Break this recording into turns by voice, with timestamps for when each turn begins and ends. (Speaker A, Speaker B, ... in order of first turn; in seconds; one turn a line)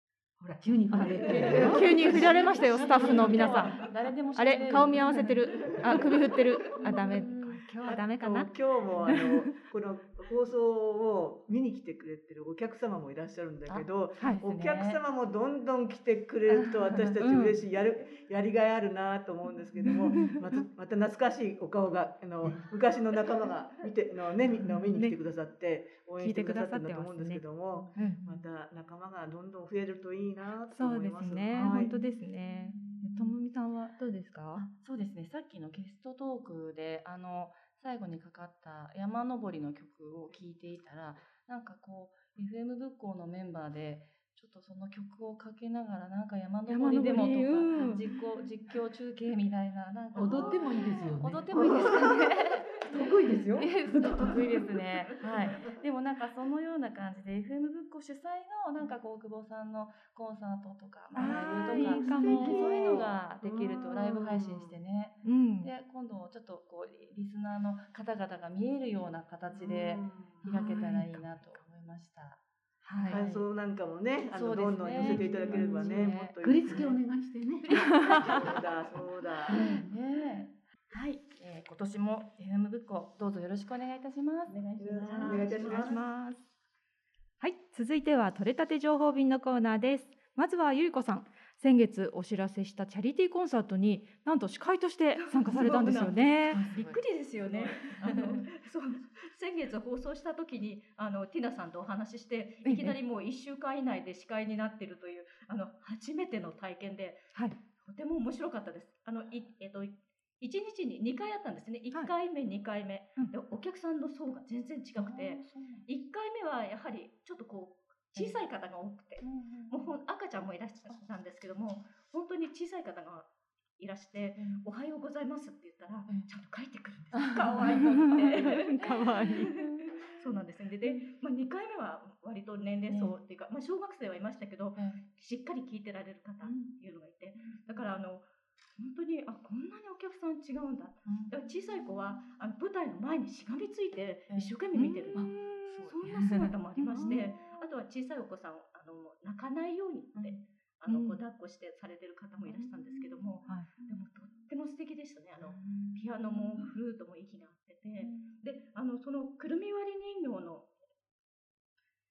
Speaker A: 0.4-3.8
Speaker B: 0.9-3.8
Speaker C: 0.9-6.0
Speaker B: 4.3-8.5
Speaker A: 6.8-7.4
Speaker D: 7.8-31.9
Speaker B: 9.0-9.5
Speaker C: 13.7-15.0
Speaker B: 16.5-17.6
Speaker B: 19.9-20.4
Speaker B: 26.2-28.2
Speaker B: 30.7-34.6
Speaker C: 31.6-33.3
Speaker C: 34.5-72.4
Speaker B: 46.7-48.1
Speaker A: 50.1-52.3
Speaker E: 50.2-50.6
Speaker A: 52.8-54.5
Speaker B: 53.6-54.7
Speaker B: 61.1-63.1
Speaker D: 61.2-64.8
Speaker A: 61.7-62.5
Speaker B: 65.2-65.7
Speaker D: 69.5-70.4
Speaker B: 70.4-71.0
Speaker A: 70.4-71.3
Speaker B: 72.8-73.2
Speaker C: 73.0-73.5
Speaker D: 73.1-77.0
Speaker C: 74.3-76.9
Speaker A: 75.0-78.5
Speaker B: 77.7-78.5
Speaker C: 77.7-78.5
Speaker D: 78.3-79.6
Speaker C: 79.5-85.9
Speaker A: 79.5-79.9
Speaker D: 84.8-86.0
Speaker E: 85.1-86.0
Speaker B: 85.2-86.4
Speaker B: 87.4-96.6
Speaker E: 95.3-107.3
Speaker C: 95.5-98.4
Speaker B: 102.6-102.9
Speaker E: 107.8-145.3
Speaker C: 115.0-115.8
Speaker C: 119.2-119.9
Speaker C: 124.3-124.6
Speaker C: 127.1-129.3
Speaker B: 127.7-129.7
Speaker C: 132.9-133.2
Speaker C: 134.8-135.0
Speaker C: 136.4-136.7
Speaker C: 137.4-137.9
Speaker C: 141.1-141.5
Speaker C: 144.3-147.6
Speaker B: 144.7-145.8
Speaker E: 145.8-160.7
Speaker A: 146.2-146.4
Speaker B: 146.9-147.3
Speaker C: 150.1-150.4
Speaker B: 150.9-151.2
Speaker C: 152.4-153.1
Speaker C: 155.6-156.7
Speaker C: 158.0-158.4